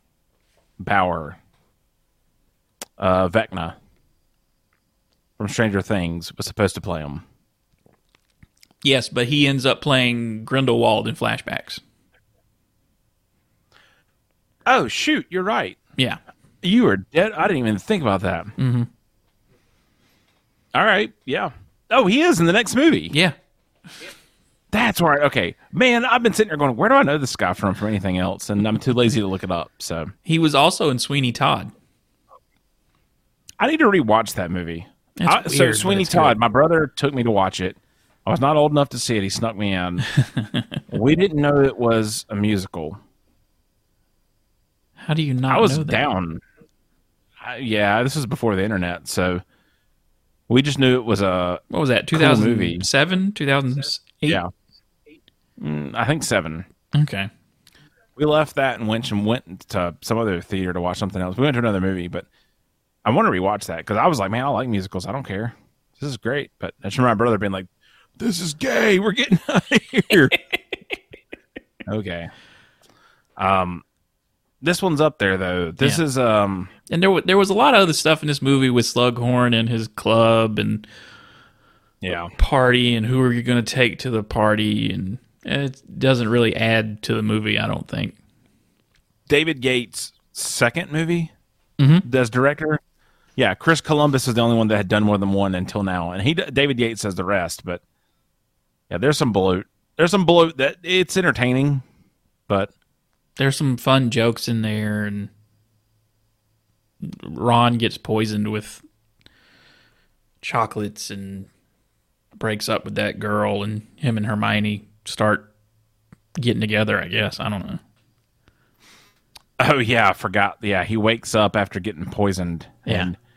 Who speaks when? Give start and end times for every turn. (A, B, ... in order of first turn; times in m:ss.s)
0:00.8-0:01.4 A
0:03.0-0:03.8 A
0:05.4-0:07.2 A
0:08.8-0:11.8 B
0:14.6-0:15.8 A
0:16.6-0:18.5 A
0:18.6-0:18.9 B
0:20.7-0:23.2 A
0:24.7-0:30.1 A
0:30.3-0:31.7 B
0:33.6-0:40.1 A
0:35.2-0:36.4 B
0:40.1-0:40.8 B
0:40.9-0:43.0 A
0:45.0-0:46.0 B
0:45.5-0:46.4 A
0:47.4-0:49.4 A
0:50.5-0:52.9 A
0:51.7-0:54.4 B
0:55.6-0:56.7 A
0:56.9-0:57.3 B
0:58.2-1:02.3 A
1:03.0-1:10.4 A
1:11.9-1:12.3 A
1:13.4-1:13.8 A
1:14.6-1:16.7 A
1:16.9-1:20.9 B
1:22.0-1:22.3 A
1:22.4-1:28.2 B
1:29.3-1:31.3 A
1:31.8-1:32.1 B
1:32.0-1:32.8 A
1:33.4-1:37.8 A
1:38.9-1:41.8 A
1:43.4-1:45.3 B
1:47.0-1:48.8 B
1:50.4-1:51.5 B
1:52.4-1:55.5 B
1:56.4-1:57.8 B
1:59.6-2:03.2 A
2:02.9-2:03.1 B